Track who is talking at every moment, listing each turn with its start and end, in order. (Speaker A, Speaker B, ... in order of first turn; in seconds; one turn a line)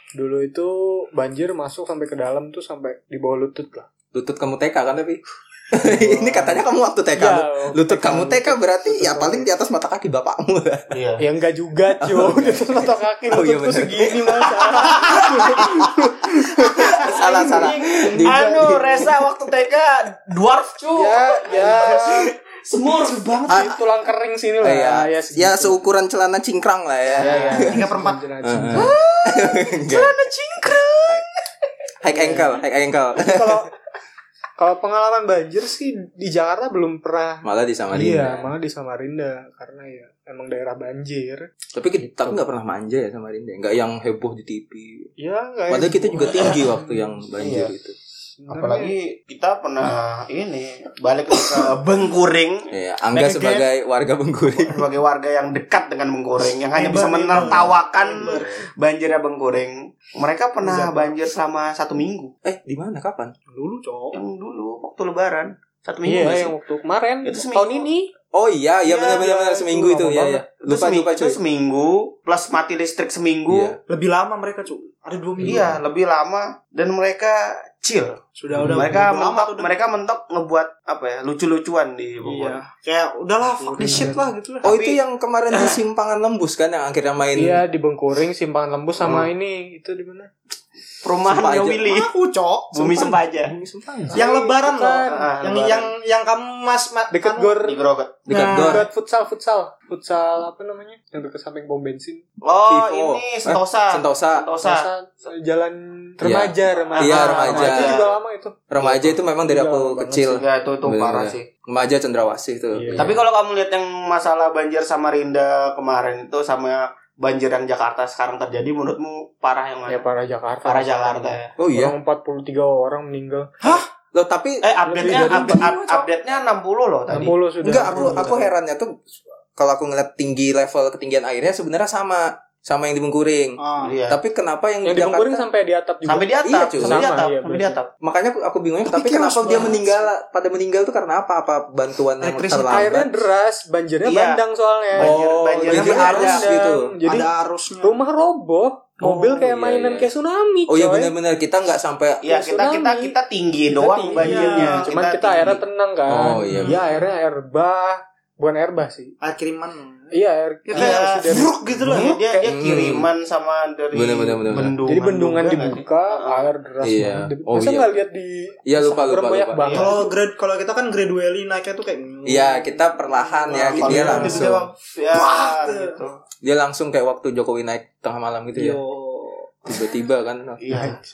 Speaker A: 0.1-3.9
Speaker B: 4.1-10.9
Speaker A: 6.0-6.5
Speaker A: 7.1-9.5
Speaker C: 10.9-11.2
Speaker A: 11.2-17.7
Speaker B: 11.9-19.1
Speaker C: 16.8-23.6
Speaker A: 18.2-19.0
Speaker A: 20.9-22.3
Speaker A: 23.5-25.8
Speaker B: 23.5-23.8
Speaker B: 24.6-27.9
Speaker C: 27.1-27.5
Speaker A: 27.2-28.9
Speaker D: 27.6-28.2
Speaker B: 28.4-30.1
Speaker C: 28.7-31.4
Speaker B: 32.0-33.7
Speaker A: 32.1-32.5
Speaker A: 33.1-33.7
Speaker A: 34.6-41.5
Speaker B: 37.4-38.5
Speaker B: 41.7-45.1
Speaker A: 45.2-47.0
Speaker B: 45.7-48.0
Speaker C: 46.3-46.6
Speaker C: 47.4-47.7
Speaker A: 48.4-48.9
Speaker C: 48.5-52.7
Speaker B: 52.7-54.9
Speaker D: 53.1-53.6
Speaker C: 54.5-62.3
Speaker D: 56.7-58.5
Speaker D: 60.6-61.1
Speaker B: 62.4-63.3
Speaker D: 63.5-64.2
Speaker C: 64.1-66.5
Speaker A: 66.0-68.1
Speaker C: 67.2-67.9
Speaker B: 68.3-71.4
Speaker A: 68.9-70.4
Speaker C: 70.6-73.8
Speaker B: 73.5-73.8
Speaker D: 73.9-75.8
Speaker C: 75.4-82.6
Speaker D: 78.3-79.7
Speaker B: 78.5-79.0
Speaker D: 82.2-84.7
Speaker A: 83.7-84.2
Speaker B: 84.6-87.6
Speaker C: 84.6-85.0
Speaker C: 85.5-85.8
Speaker A: 87.3-90.3
Speaker C: 91.0-92.1
Speaker B: 91.2-91.8
Speaker D: 91.8-92.9
Speaker C: 92.7-93.5
Speaker B: 92.8-94.2
Speaker A: 94.1-95.3
Speaker D: 94.1-97.6
Speaker C: 95.0-95.9
Speaker A: 97.1-97.8
Speaker C: 97.6-98.2
Speaker B: 98.3-98.9
Speaker D: 98.3-98.8
Speaker A: 98.5-102.2
Speaker C: 102.4-104.9
Speaker B: 102.6-104.5
Speaker A: 104.6-110.4
Speaker B: 106.2-108.0
Speaker C: 106.9-108.1
Speaker B: 108.7-113.2
Speaker C: 110.2-111.5
Speaker A: 112.7-113.2
Speaker C: 112.9-120.0
Speaker A: 119.9-123.8
Speaker C: 120.6-121.5
Speaker B: 121.6-122.0
Speaker B: 124.1-124.7
Speaker C: 124.6-127.4
Speaker A: 124.8-126.0
Speaker D: 125.4-125.8
Speaker A: 127.1-128.5
Speaker B: 127.6-129.0
Speaker C: 127.9-128.4
Speaker B: 129.6-135.4
Speaker D: 133.6-134.0
Speaker C: 133.8-134.2
Speaker A: 134.8-137.8
Speaker C: 136.0-137.9
Speaker B: 136.4-137.1
Speaker B: 138.0-143.1
Speaker D: 138.9-139.9
Speaker D: 142.2-142.8
Speaker A: 142.7-147.3
Speaker C: 144.0-144.4
Speaker C: 144.9-146.5
Speaker B: 145.0-146.9
Speaker D: 145.8-146.2
Speaker D: 147.0-148.0
Speaker A: 147.8-151.1
Speaker B: 149.0-150.1
Speaker B: 150.7-152.2
Speaker C: 152.2-155.6
Speaker A: 152.3-153.1
Speaker A: 153.7-159.1
Speaker D: 154.2-154.9
Speaker B: 156.1-157.0
Speaker D: 159.2-160.1
Speaker A: 160.1-162.2
Speaker D: 160.7-162.2
Speaker C: 160.7-166.5
Speaker B: 162.4-163.1
Speaker B: 163.9-164.8
Speaker A: 164.9-170.0
Speaker B: 166.8-167.9
Speaker B: 168.7-169.8
Speaker C: 169.6-170.1
Speaker D: 169.7-174.6
Speaker B: 172.2-174.7
Speaker C: 173.5-176.2
Speaker D: 175.1-176.0
Speaker B: 176.4-178.8
Speaker D: 178.6-179.8
Speaker B: 179.7-180.6
Speaker C: 180.6-181.0
Speaker A: 180.7-181.0